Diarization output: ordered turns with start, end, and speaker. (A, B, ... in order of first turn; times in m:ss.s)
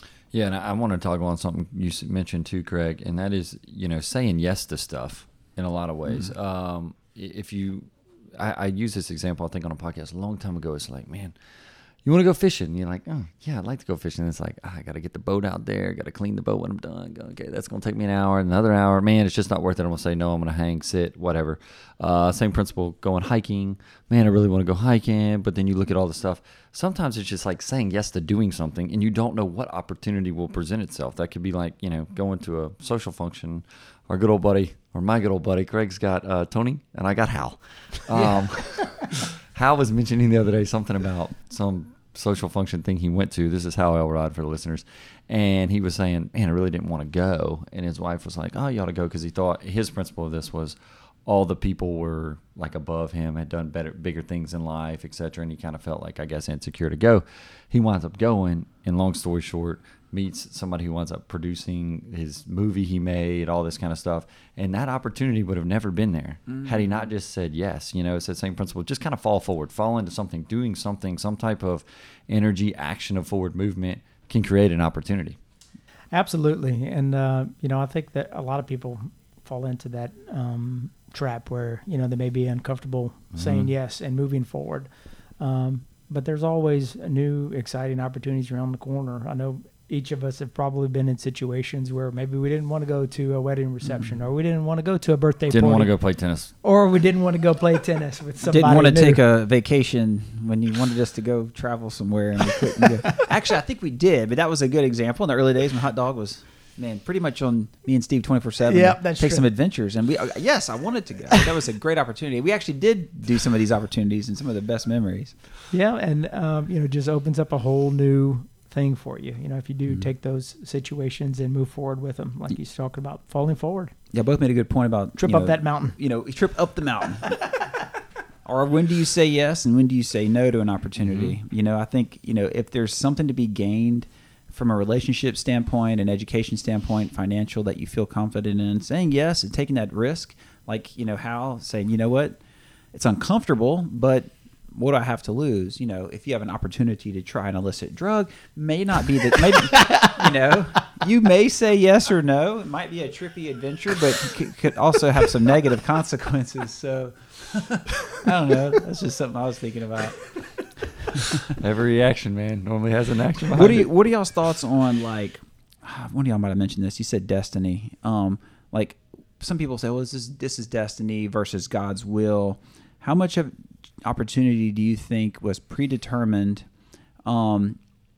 0:00.3-0:11.4 A
0:12.0-1:15.4 A
1:16.1-1:35.9 B
1:23.4-1:23.7 A
1:35.5-1:36.5 A
1:36.6-1:39.2 B
1:38.4-1:55.3 C
1:48.7-1:49.4 B
1:55.7-2:03.9 B
2:04.1-2:07.4 C
2:05.2-2:06.0 B
2:08.4-2:22.4 C
2:11.0-2:11.3 A
2:22.9-2:40.4 C
2:41.5-2:43.9 A
2:43.5-2:56.7 C
2:57.2-2:57.8 C